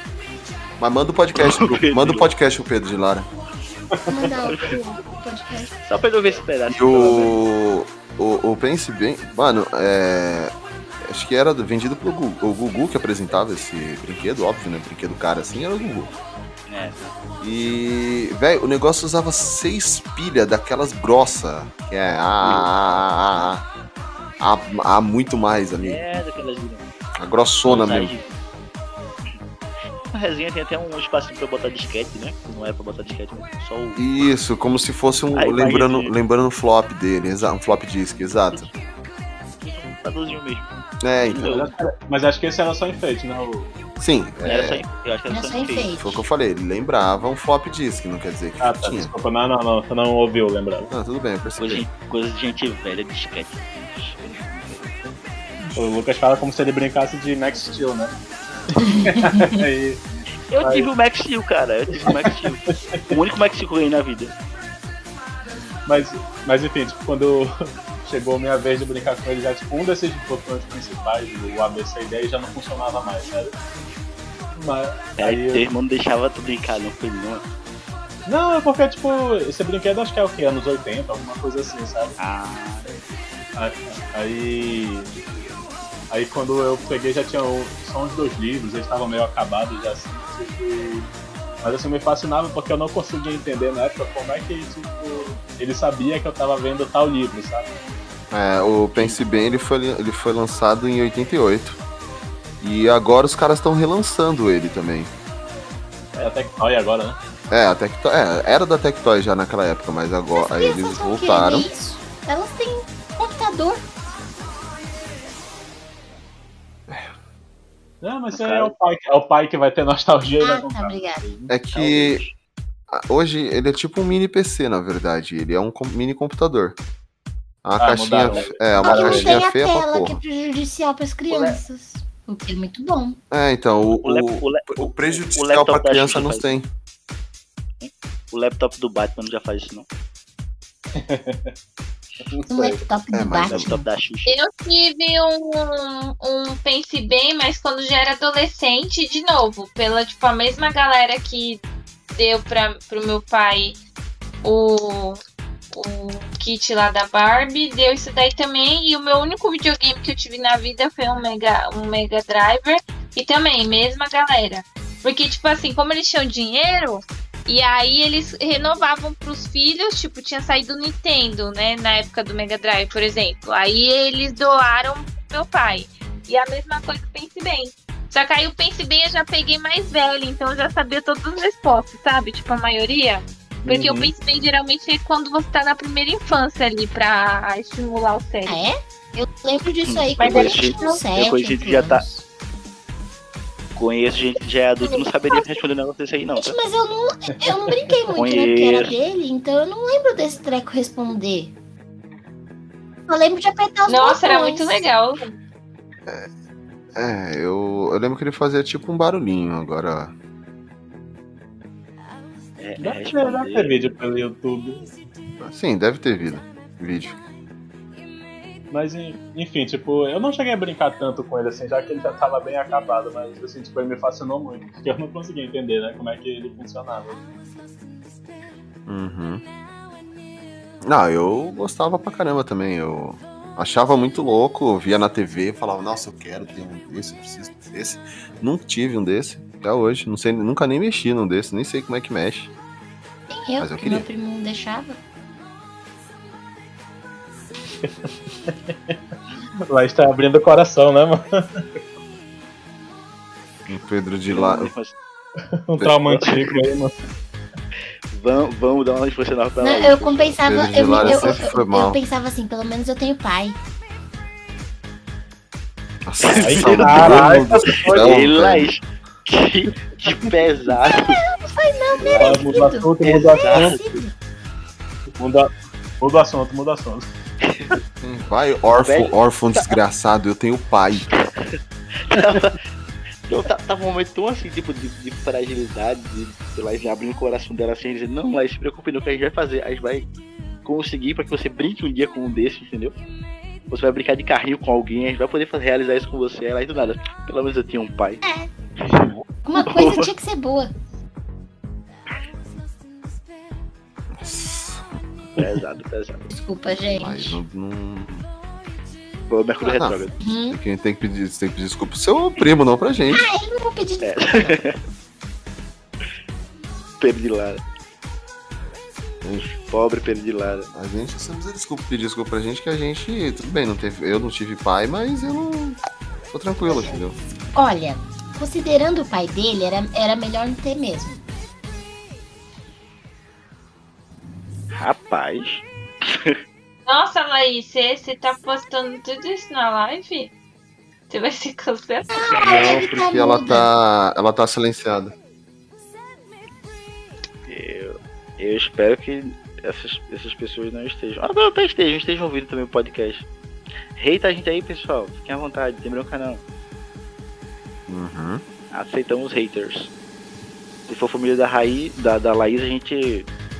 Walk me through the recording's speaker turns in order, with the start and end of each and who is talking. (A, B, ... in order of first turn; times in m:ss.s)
0:00.8-0:03.3 A
0:01.4-0:02.3 B
0:03.9-0:04.3 C
0:04.1-0:05.8 D
0:04.5-0:04.7 B
0:05.8-0:07.3 B
0:06.7-0:16.1 A
0:16.7-0:17.1 B
0:17.4-0:23.6 A
0:24.4-0:26.1 A
0:25.8-0:26.9 B
0:27.2-0:28.1 A
0:27.6-0:28.4 B
0:30.1-0:34.0 B
0:34.0-0:38.7 A
0:35.3-0:36.1 B
0:39.6-0:41.7 B
0:41.0-0:41.5 A
0:41.4-0:43.8 C
0:44.0-0:44.8 A
0:44.4-0:45.9 B
0:45.3-0:46.2 D
0:46.0-0:49.1 A
0:48.6-0:50.9 C
0:50.9-0:51.8 A
0:51.6-0:54.8 B
0:55.7-0:58.1 C
0:58.8-1:00.0 C
0:58.9-0:59.5 D
1:00.5-1:04.3 B
1:00.6-1:00.9 C
1:01.9-1:03.2 C
1:05.8-1:13.5 C
1:14.5-1:15.6 C
1:15.2-1:17.4 B
1:18.2-1:22.2 C
1:22.2-1:23.0 B
1:23.6-1:25.1 C
1:26.1-1:31.1 C
1:31.6-1:37.7 C
1:38.3-1:41.8 A
1:42.6-1:45.1 A
1:46.2-1:47.2 C
1:47.5-1:51.7 A
1:50.4-1:53.8 D
1:58.0-2:01.5 C
1:58.3-1:58.7 B
2:00.4-2:01.2 D
2:01.5-2:02.2 A
2:01.7-2:02.3 B
2:02.9-2:06.8 A
2:07.6-2:10.2 A
2:07.8-2:09.4 C
2:08.8-2:13.2 D
2:11.3-2:11.6 B
2:13.3-2:16.7 A
2:14.0-2:16.5 B
2:17.8-2:19.8 B
2:21.0-2:21.5 C
2:22.3-2:22.8 C
2:22.5-2:23.8 D
2:23.1-2:23.7 A
2:23.4-2:24.4 B
2:24.2-2:31.6 E
2:32.2-2:33.8 E
2:34.4-2:35.2 E
2:35.7-3:08.6 E
3:03.6-3:04.1 C
3:08.4-3:12.2 D
3:09.8-3:12.0 B
3:10.2-3:11.0 E
3:13.8-3:16.6 B
3:16.4-3:21.5 D
3:17.3-3:17.7 C
3:18.1-3:18.9 B
3:23.1-3:24.8 D
3:23.9-3:25.3 E
3:27.0-3:30.1 A
3:32.6-3:33.8 B
3:32.8-3:34.9 C
3:35.4-3:37.2 A
3:38.7-3:47.2 C
3:48.9-3:49.4 A
3:50.8-4:02.5 A
4:03.3-4:05.0 D
4:03.6-4:04.1 A
4:07.8-4:09.0 C
4:09.7-4:11.6 C
4:13.7-4:14.7 A
4:14.3-4:14.9 B
4:15.6-4:17.0 C
4:18.1-4:20.4 B
4:19.6-4:23.6 D
4:20.4-4:22.0 A
4:21.0-4:21.3 B
4:26.1-4:28.7 A
4:26.3-4:27.3 B
4:26.4-4:28.2 C
4:27.9-4:31.2 B
4:30.8-4:34.1 D
4:32.0-4:32.4 B
4:32.2-4:33.8 C
4:33.0-4:33.8 B
4:35.2-4:35.5 C
4:36.0-4:37.1 C
4:38.0-4:41.1 A
4:38.8-4:39.8 B
4:41.1-4:42.6 B
4:43.3-4:50.1 B
4:50.6-4:52.9 B
4:53.7-4:58.2 B
4:58.2-4:58.5 D
4:58.8-5:00.1 B
4:59.4-5:00.7 D
5:04.1-5:04.8 A
5:05.4-5:06.3 B
5:06.3-5:07.4 D
5:07.0-5:08.3 A
5:09.3-5:10.1 B
5:09.6-5:10.0 A
5:10.2-5:10.6 D
5:10.5-5:13.2 A
5:13.1-5:14.6 D
5:14.0-5:14.8 B
5:17.0-5:17.6 B
5:19.5-5:20.7 B
5:20.7-5:25.8 A
5:26.3-5:27.2 A
5:26.7-5:27.0 D
5:27.5-5:31.2 D
5:34.7-5:36.3 B
5:36.9-5:40.3 E
5:41.1-5:42.1 E
5:42.1-5:43.7 D
5:42.3-5:45.1 A
5:47.5-5:53.2 B
5:54.0-5:56.4 B
5:57.9-5:58.4 A
5:58.7-5:59.9 B
6:00.9-6:03.3 B